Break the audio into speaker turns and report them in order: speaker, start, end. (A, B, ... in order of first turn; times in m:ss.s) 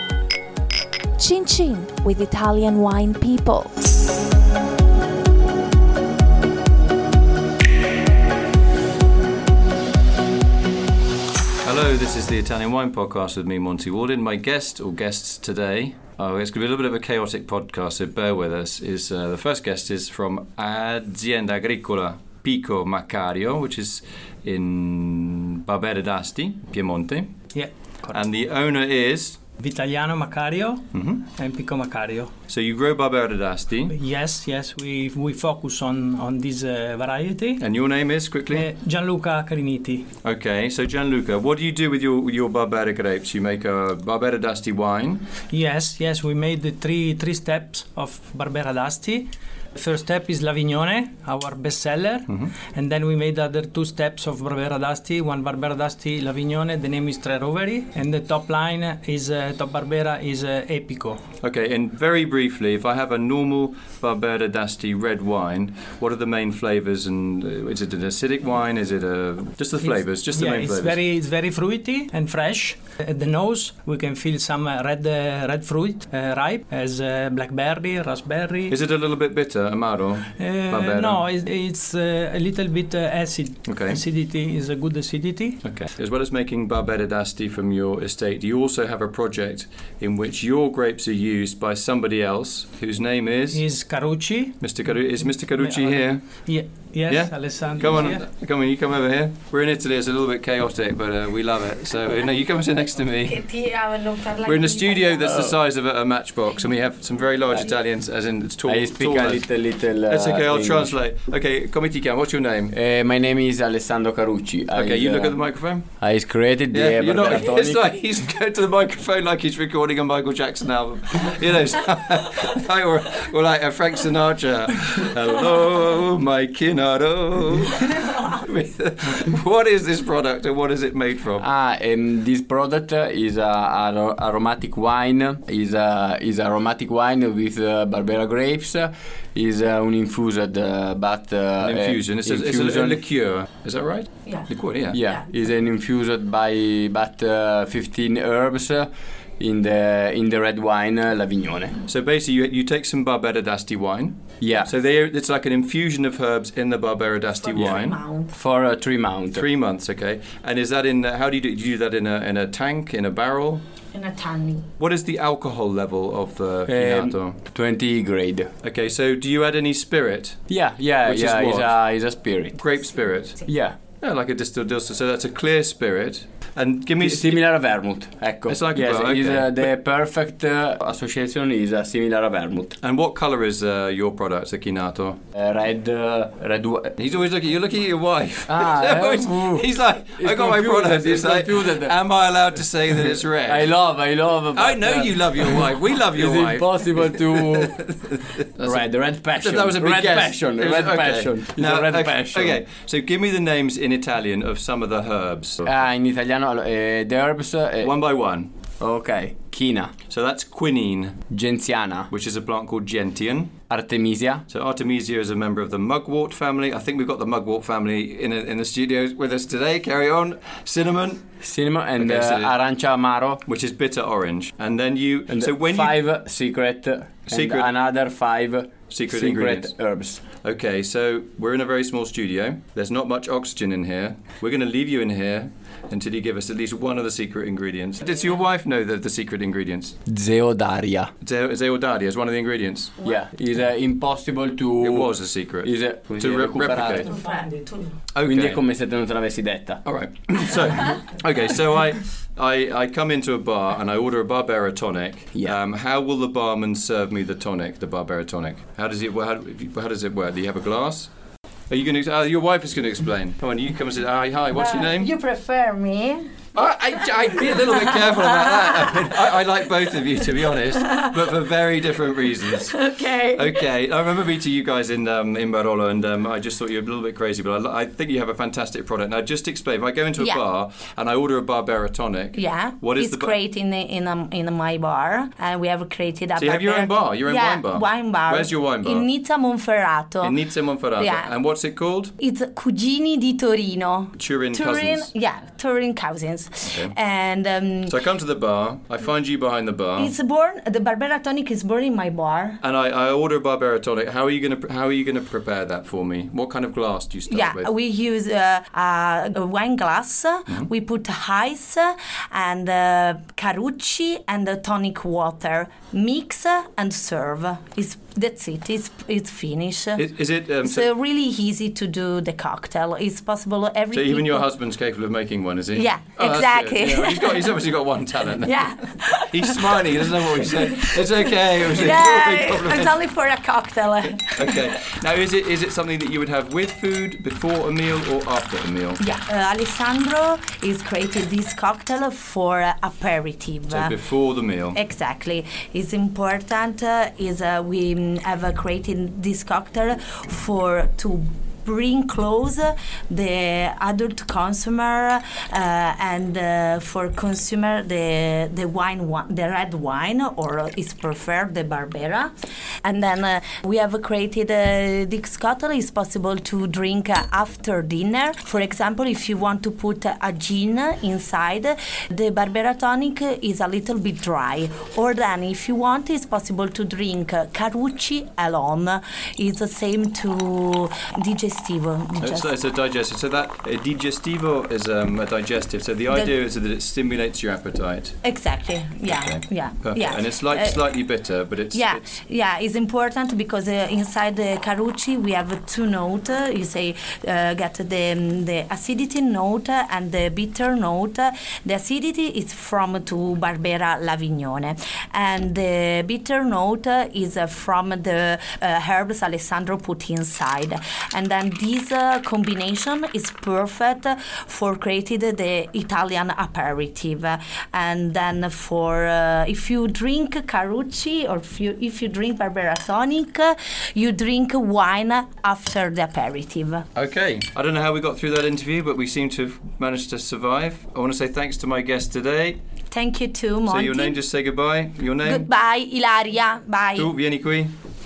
0:01.2-0:03.7 A
0:11.6-0:27.3 B
0:27.5-0:28.2 C
0:28.1-0:29.4 B
0:29.6-0:32.3 C
0:30.9-0:31.2 B
0:32.5-0:33.9 B
0:33.9-0:37.6 C
0:37.6-0:38.7 B
0:38.5-0:40.1 C
0:40.2-0:45.3 B
0:45.5-1:01.2 C
1:01.4-1:11.0 B
1:09.8-1:18.8 C
1:18.7-1:21.2 B
1:20.4-1:25.6 C
1:23.6-1:24.0 B
1:25.6-1:33.6 B
1:33.5-1:34.6 C
1:34.6-1:36.3 B
1:35.6-1:38.2 C
1:37.1-1:43.4 B
1:43.2-1:45.5 D
1:44.4-1:49.5 B
1:48.6-1:50.9 E
1:50.1-1:52.7 B
1:52.7-1:55.4 E
1:54.7-1:55.9 B
1:56.0-1:57.9 E
1:56.7-2:11.4 B
2:11.4-2:23.0 E
2:21.6-2:25.0 B
2:24.9-2:28.9 E
2:29.4-2:31.8 E
2:31.8-2:38.0 B
2:34.4-2:34.7 E
2:37.3-2:38.3 D
2:38.3-2:39.4 E
2:39.3-2:43.6 B
2:43.9-2:44.7 D
2:44.8-2:47.4 B
2:46.7-2:48.5 E
2:48.6-2:50.4 B
2:50.5-2:52.6 E
2:51.0-2:51.7 B
2:52.6-2:53.4 B
2:53.4-2:53.8 E
2:54.0-2:57.4 B
2:57.0-3:02.8 E
2:58.5-2:59.7 B
3:02.8-3:05.2 B
3:05.3-3:06.9 E
3:07.0-3:13.7 B
3:08.5-3:12.0 E
3:13.1-3:17.8 E
3:14.5-3:25.7 B
3:18.6-3:22.6 E
3:25.6-3:28.0 E
3:27.8-3:28.5 B
3:28.8-3:29.9 E
3:30.1-3:31.2 B
3:31.3-3:32.1 E
3:32.1-3:33.5 B
3:33.7-3:34.4 E
3:34.5-3:41.2 B
3:41.4-3:43.4 E
3:42.0-3:42.5 B
3:43.4-3:46.0 B
3:45.3-3:50.2 E
3:47.3-3:47.7 B
3:48.9-3:49.7 B
3:50.4-3:59.9 B
4:00.1-4:01.1 E
4:01.2-4:02.9 B
4:03.0-4:07.1 E
4:04.8-4:07.1 B
4:07.0-4:07.9 D
4:08.1-4:08.6 B
4:08.2-4:09.8 E
4:09.8-4:21.1 B
4:21.7-4:25.1 B
4:24.5-4:26.3 D
4:26.5-4:32.8 B
4:27.2-4:29.2 D
4:30.9-4:31.2 D
4:32.5-4:33.6 D
4:33.3-4:43.3 B
4:40.2-4:40.4 D
4:42.3-4:51.3 D
4:46.4-4:49.1 B
4:50.2-4:52.1 B
4:52.2-4:58.0 D
4:54.2-4:55.1 B
4:56.7-4:56.9 B
4:57.9-5:00.1 B
5:00.0-5:02.6 D
5:02.6-5:07.7 B
5:07.3-5:20.0 D
5:20.0-5:20.9 B
5:20.6-5:24.5 D
5:23.9-5:28.6 B
5:25.7-5:27.5 D
5:28.4-5:34.7 D
5:29.3-5:33.0 B
5:34.2-5:39.0 B
5:39.0-5:44.0 D
5:43.7-5:44.8 B
5:44.7-6:02.3 D
6:02.8-6:22.5 D
6:22.2-6:28.2 B
6:28.2-6:30.8 D
6:29.0-6:32.1 B
6:31.7-7:06.8 D
7:06.9-7:12.6 B
7:12.9-7:14.2 D
7:13.7-7:15.4 B
7:15.2-7:17.1 D
7:17.0-7:17.7 B